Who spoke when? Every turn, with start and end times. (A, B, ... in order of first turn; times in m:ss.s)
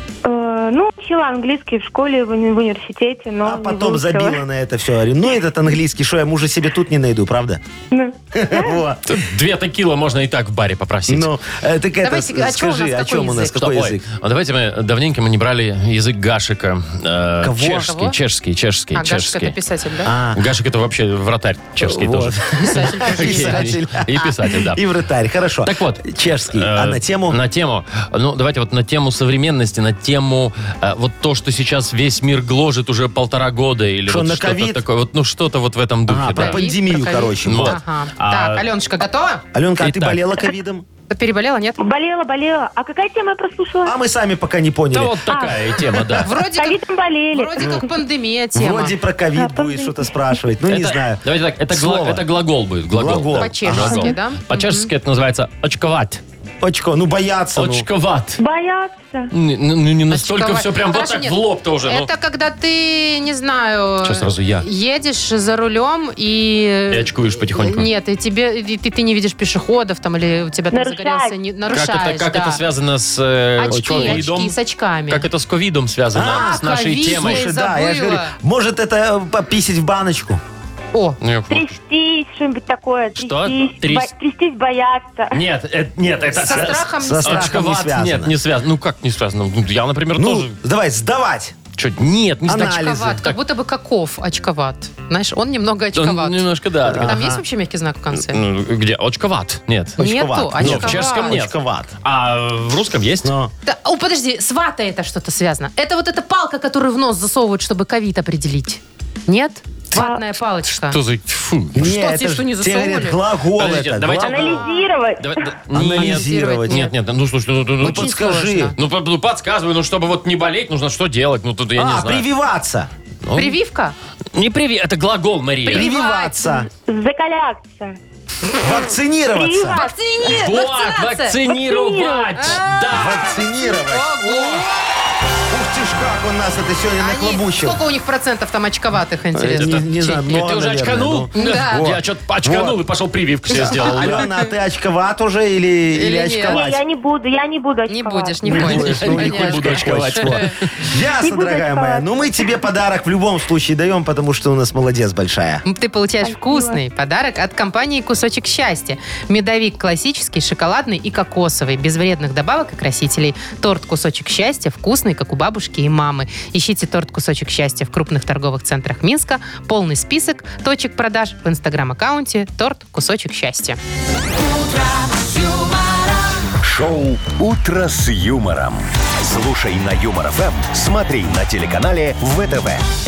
0:00.2-0:04.4 A
0:03.4-0:07.6 B
0:07.9-0:08.8 A
0:08.3-0:09.2 B
0:09.0-0:11.3 C
0:11.1-0:14.0 B
0:12.0-0:13.7 D
0:13.6-0:19.6 C
0:17.4-0:17.9 B
0:17.7-0:18.2 D
0:18.9-0:20.1 D
0:20.0-0:20.4 B
0:20.3-0:24.8 C
0:21.8-0:27.4 B
0:22.6-0:23.7 D
0:25.6-0:36.6 C
0:34.1-0:34.8 B
0:36.1-0:37.8 B
0:36.3-0:39.4 D
0:37.4-0:38.6 C
0:39.5-0:40.8 B
0:39.8-0:40.2 C
0:41.1-0:41.8 D
0:41.8-0:44.0 A
0:43.8-0:46.2 B
0:44.9-0:46.3 C
0:45.3-0:45.6 A
0:46.2-0:46.8 D
0:46.5-0:47.9 A
0:47.3-0:49.0 D
0:47.6-0:47.8 B
0:48.5-0:52.2 B
0:49.3-0:50.4 A
0:50.7-0:56.2 C
0:52.9-0:54.0 B
0:53.3-0:54.9 D
0:56.6-0:57.8 B
0:57.5-0:58.4 C
0:58.4-0:59.3 A
0:59.3-1:02.1 C
1:00.1-1:12.6 D
1:04.0-1:04.6 C
1:06.9-1:07.9 C
1:10.7-1:11.4 A
1:11.7-1:14.6 C
1:13.6-1:15.2 D
1:13.7-1:14.2 B
1:15.1-1:17.4 C
1:16.1-1:20.4 B
1:16.2-1:18.3 D
1:21.2-1:21.8 C
1:21.5-1:25.4 A
1:23.2-1:24.1 C
1:25.3-1:30.5 C
1:26.4-1:27.7 D
1:26.4-1:28.4 B
1:30.2-1:31.6 B
1:31.8-1:33.4 C
1:32.4-1:33.2 B
1:32.5-1:36.4 D
1:35.9-1:37.3 C
1:36.9-1:37.4 B
1:37.0-1:38.4 D
1:38.2-1:40.0 C
1:40.0-1:41.9 B
1:40.0-1:41.4 D
1:40.6-1:43.3 C
1:43.2-1:43.5 B
1:43.6-1:51.0 D
1:49.9-1:50.2 A
1:50.7-1:51.9 C
1:51.7-1:54.6 B
1:51.8-1:53.2 D
1:53.6-1:54.6 C
1:54.2-1:55.5 A
1:54.5-1:54.8 D
1:55.2-1:58.1 C
1:55.7-1:56.8 B
1:56.0-1:56.9 D
1:57.8-1:58.7 B
1:57.8-1:58.7 D
1:58.8-2:02.2 C
2:01.7-2:02.9 B
2:03.2-2:03.6 C
2:03.3-2:03.9 D
2:04.3-2:05.9 C
2:05.6-2:06.6 D
2:05.7-2:06.7 B
2:06.7-2:08.0 A
2:08.6-2:09.8 B
2:09.3-2:10.4 A
2:09.6-2:11.4 D
2:10.3-2:13.4 C
2:11.5-2:12.4 A
2:12.4-2:14.7 D
2:12.9-2:14.6 B
2:15.5-2:17.8 B
2:17.0-2:20.2 D
2:19.4-2:22.8 B
2:19.4-2:24.3 C
2:21.3-2:21.8 D
2:23.5-2:26.8 B
2:23.5-2:24.4 D
2:25.9-2:26.6 D
2:26.5-2:28.5 A
2:27.9-2:30.4 D
2:28.5-2:35.6 B
2:28.5-2:30.7 C
2:31.2-2:32.1 A
2:35.6-2:53.8 D
2:36.2-2:36.8 A
2:56.6-3:02.8 E